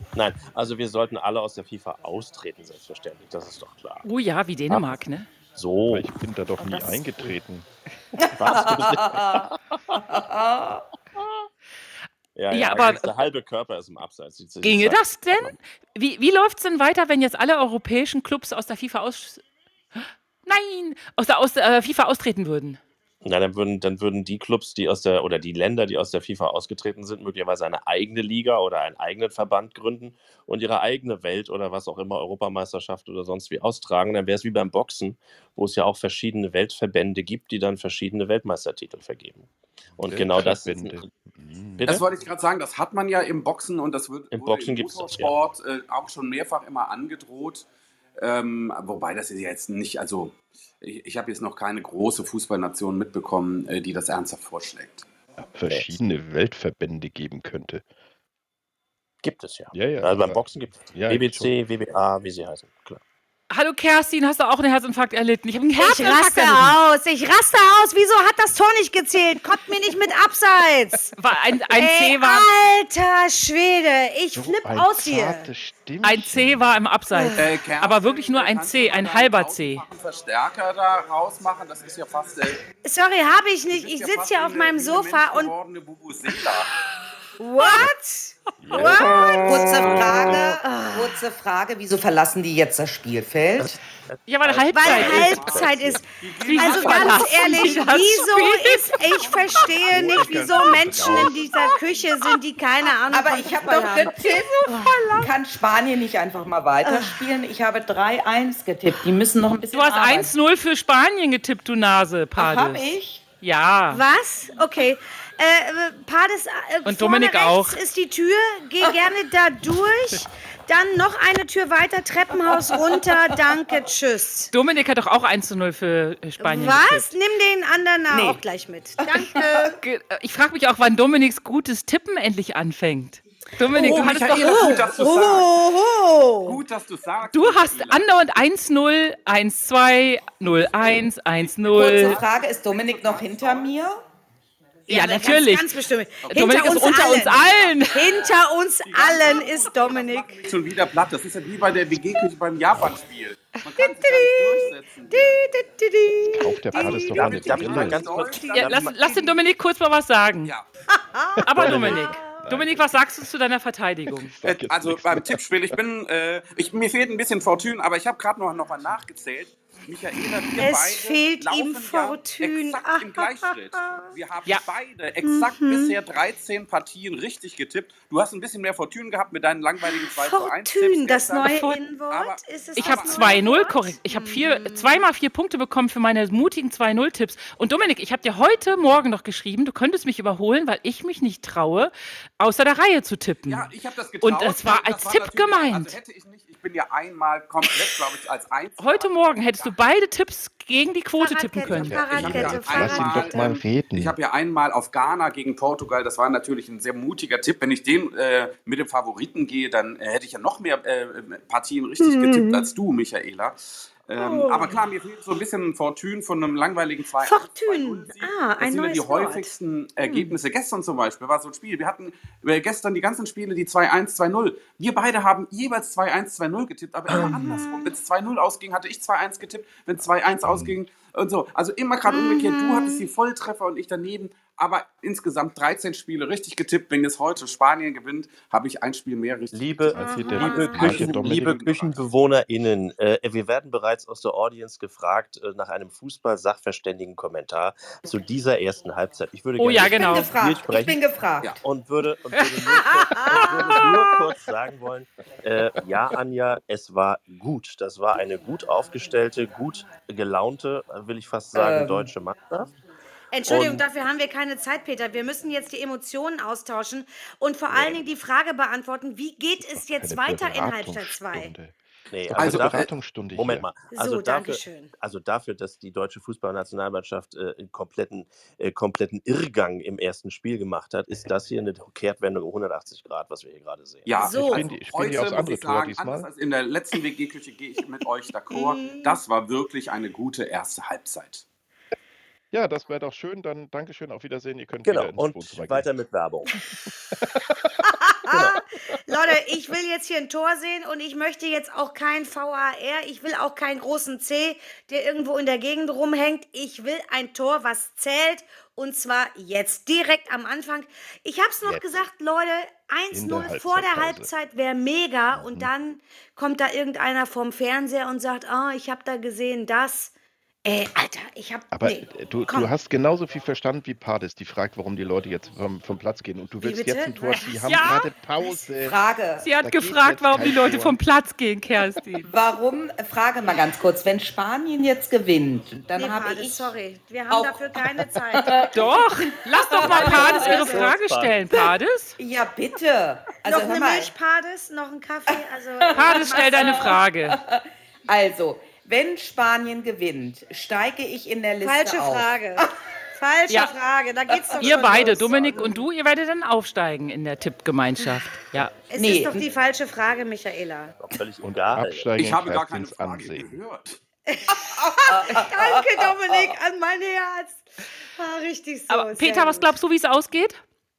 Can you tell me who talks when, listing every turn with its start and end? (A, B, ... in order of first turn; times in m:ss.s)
0:00.2-0:04.0 A
0:04.0-0:05.3 B
0:04.7-0:05.0 A
0:05.6-0:07.2 A
0:05.9-0:07.7 C
0:08.2-0:09.5 D
0:08.3-0:10.0 A
0:10.1-0:10.8 D
0:12.4-0:15.6 A
0:12.5-0:13.1 B
0:14.6-0:19.4 B
0:20.5-0:22.8 B
0:23.2-0:41.1 A
0:40.0-0:42.0 C
0:41.8-0:42.0 A
0:41.8-0:47.7 E
0:44.3-0:45.4 A
0:48.2-0:55.1 E
0:55.5-0:57.8 C
0:55.6-0:56.0 A
0:59.2-1:03.0 A
0:59.7-1:01.5 C
1:03.5-1:06.8 B
1:05.8-1:11.1 F
1:11.2-1:12.5 B
1:11.7-1:15.5 F
1:14.3-1:16.7 C
1:16.0-1:19.8 B
1:17.1-1:17.5 F
1:17.4-1:22.6 E
1:22.8-1:25.5 F
1:23.7-1:26.7 E
1:27.4-1:31.2 F
1:28.6-1:29.4 C
1:29.1-1:33.8 D
1:33.6-1:36.0 A
1:34.3-1:35.6 B
1:34.7-1:45.0 F
1:34.9-1:38.1 E
1:36.4-1:39.0 B
1:39.2-1:40.5 E
1:39.9-1:41.6 C
1:43.1-1:50.3 D
1:44.6-1:45.3 B
1:46.8-1:47.2 F
1:49.7-1:52.9 B
1:52.4-1:53.2 D
1:53.4-1:54.0 B
1:53.9-2:04.5 F
1:56.8-1:57.8 B
2:02.6-2:03.2 D
2:04.5-2:07.1 B
2:06.4-2:09.8 F
2:08.1-2:08.4 D
2:09.0-2:09.7 D
2:09.8-2:14.8 B
2:13.7-2:16.6 F
2:13.8-2:15.6 E
2:16.4-2:18.1 E
2:17.3-2:22.2 B
2:21.4-2:23.7 E
2:21.7-2:24.0 D
2:24.9-2:30.5 F
2:24.9-2:25.7 B
2:26.2-2:35.4 E
2:26.3-2:28.0 B
2:33.8-2:39.3 F
2:36.2-2:38.1 C
2:36.8-2:38.7 E
2:36.8-2:39.0 A
2:38.5-2:40.5 B
2:40.9-2:42.4 F
2:41.4-2:44.3 B
2:41.5-2:43.0 C
2:44.3-2:45.4 C
2:44.4-3:03.5 E
2:50.6-2:54.1 F
2:55.2-2:56.0 F
2:59.8-3:05.0 F
3:01.4-3:01.7 B
3:02.8-3:13.7 B
3:13.5-3:19.8 E
3:14.2-3:16.0 B
3:18.8-3:22.0 B
3:21.2-3:23.5 F
3:21.7-3:24.2 C
3:21.9-4:02.0 E
3:32.0-3:32.7 F
3:34.2-3:34.8 F
3:37.2-3:40.4 F
3:47.1-3:47.9 F
3:50.4-3:50.8 C
3:52.1-3:53.0 F
3:59.5-4:11.0 A
3:59.9-4:01.7 C
4:00.0-4:01.0 F
4:09.6-4:10.3 B
4:09.9-4:11.6 D
4:11.6-4:22.7 A
4:12.7-4:14.2 F
4:21.5-4:22.1 D
4:23.3-4:31.5 F
4:23.5-4:23.9 A
4:27.7-4:28.0 A
4:29.6-4:33.8 C
4:32.1-4:44.3 A
4:32.4-4:32.9 E
4:33.9-4:34.9 F
4:44.1-4:51.4 E
4:44.2-4:44.7 F
4:44.3-4:46.3 C
4:48.5-4:49.2 F
4:52.5-4:55.9 C
4:54.8-4:56.5 A
4:57.8-5:20.1 F
4:58.3-4:58.6 A
5:11.6-5:12.0 C
5:13.1-5:14.3 C
5:15.3-5:15.7 C
5:20.6-5:22.7 F
5:21.7-5:29.0 C
5:26.6-5:28.0 F
5:27.6-5:28.1 B
5:28.8-5:29.5 D
5:29.4-5:32.3 B
5:29.6-5:31.0 C
5:32.2-5:36.7 D
5:36.0-5:38.9 F
5:37.3-5:40.7 D
5:38.7-5:42.2 B
5:39.7-5:40.9 F
5:39.8-5:41.5 A
5:42.2-5:44.1 D
5:43.4-5:47.0 F
5:45.3-5:52.7 D
5:45.9-5:47.4 B
5:51.6-5:55.8 F
5:54.6-5:58.8 B
5:58.9-6:01.0 F
5:59.0-5:59.5 D
6:01.0-6:02.2 A
6:01.4-6:03.6 C
6:02.2-6:04.0 E
6:04.3-6:09.7 F
6:04.5-6:06.6 D
6:08.9-6:10.6 B